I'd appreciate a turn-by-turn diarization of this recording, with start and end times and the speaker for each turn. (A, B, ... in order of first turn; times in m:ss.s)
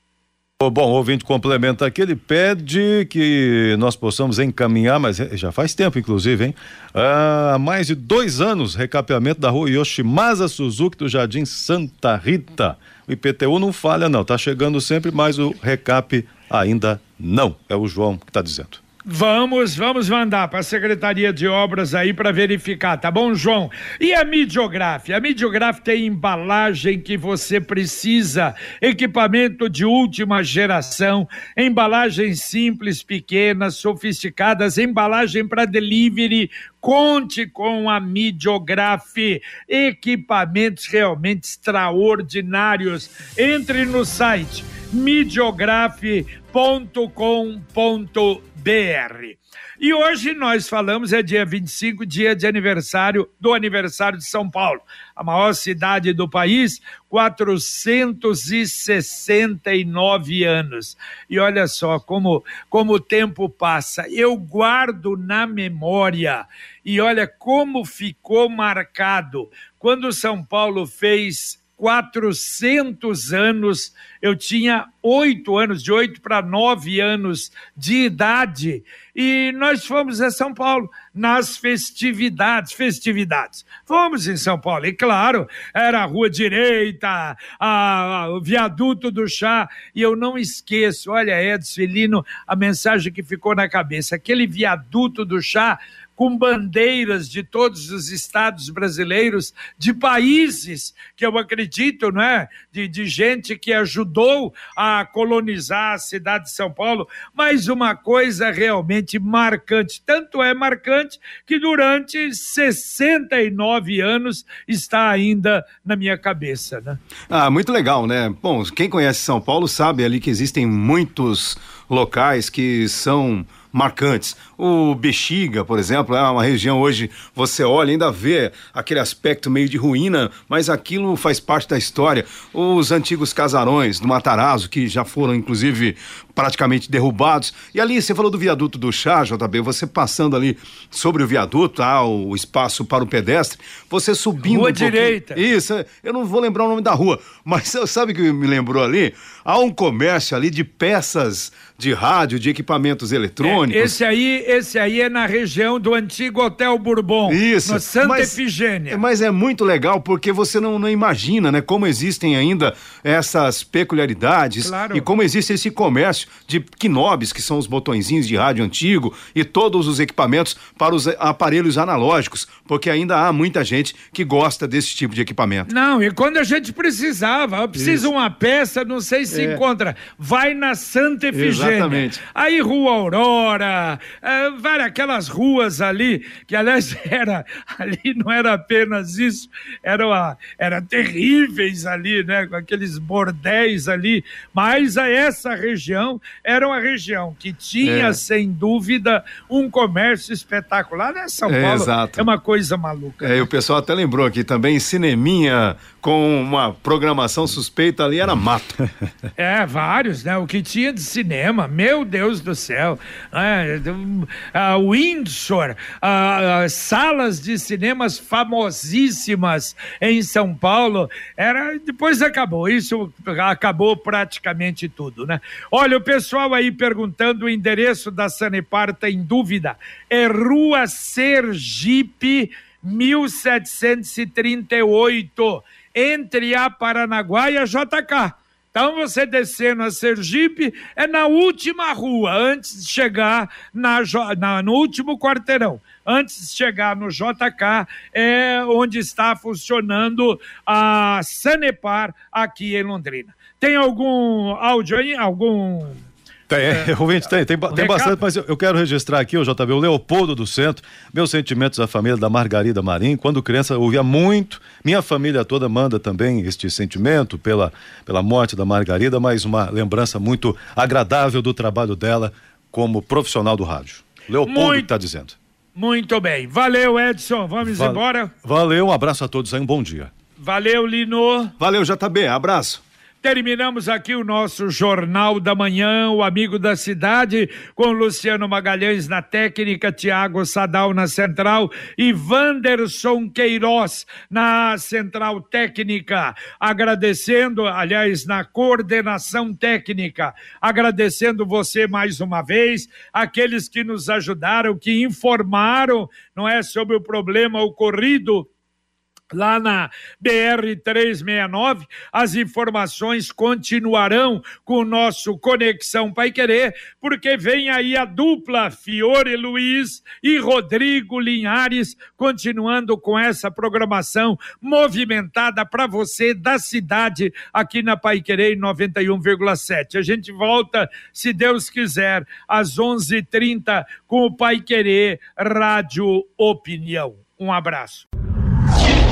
0:00.6-0:18.8 A
0:19.1-1:57.0 B
1:57.3-2:34.0 C
2:24.4-2:25.4 B
2:33.4-2:39.0 B
2:37.3-2:55.7 C
2:44.6-2:45.0 B
2:55.7-3:23.4 B
2:57.8-2:58.1 C
2:59.3-2:59.6 C
3:01.3-3:02.2 C
3:17.8-3:18.2 C
3:21.4-3:22.3 C
3:23.2-3:28.8 C
3:29.4-4:16.0 B
4:16.5-4:35.4 A
4:17.7-4:18.2 B
4:34.4-4:34.9 B
4:35.8-4:38.3 B
4:37.6-4:40.1 A
4:40.4-4:41.5 B
4:41.6-4:42.8 C
4:43.2-5:08.5 B
5:09.3-5:38.1 B